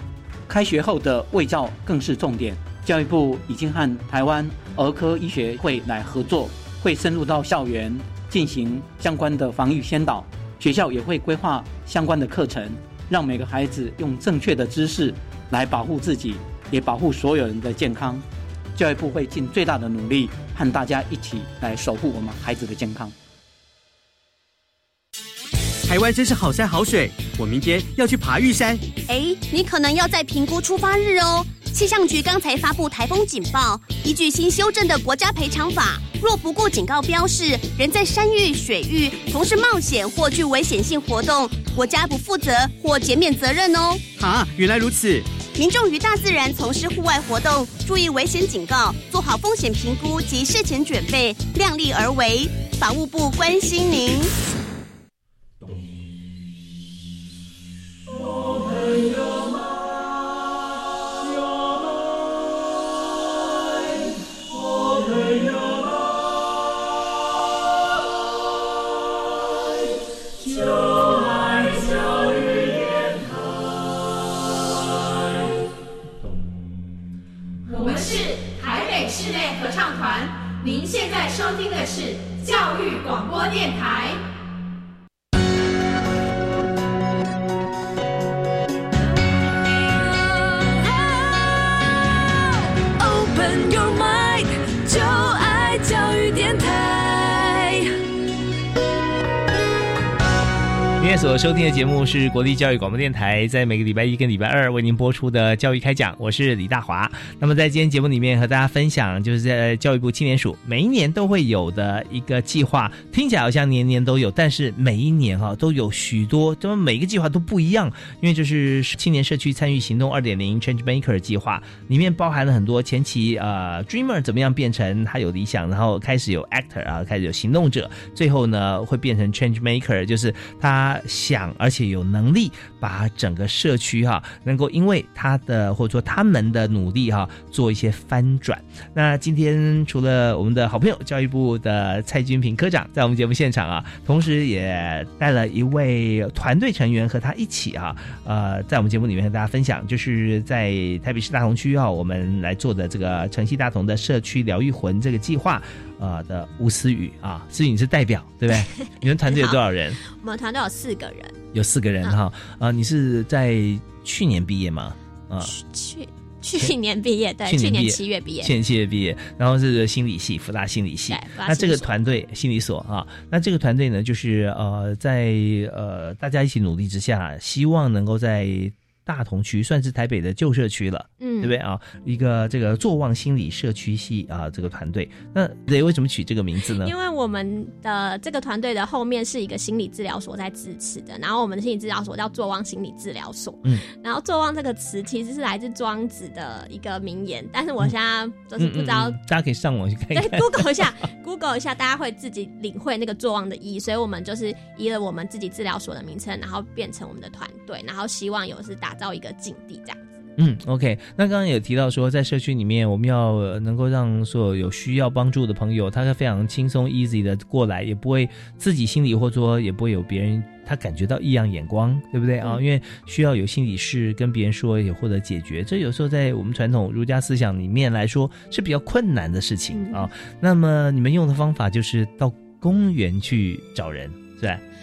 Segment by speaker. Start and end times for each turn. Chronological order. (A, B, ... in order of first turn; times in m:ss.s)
0:00.5-0:18.2 A
0:18.7-0:23.1 A
0:25.9-0:28.8 B
0:29.1-0:44.1 C
0:44.2-0:45.3 B
0:45.4-0:54.3 C
1:17.8-1:20.0 D
1:20.8-1:24.0 D
1:33.1-1:34.3 D
1:35.2-1:36.5 D
1:41.0-2:40.0 E
2:38.8-2:41.4 F
2:41.5-2:45.5 E
2:45.4-2:48.5 F
2:47.4-3:06.9 E
2:51.1-2:51.9 F
3:01.2-3:01.5 F
3:06.7-3:19.2 F
3:18.6-3:20.9 E
3:20.1-3:30.2 F
3:30.4-3:54.6 E
3:49.7-3:50.1 F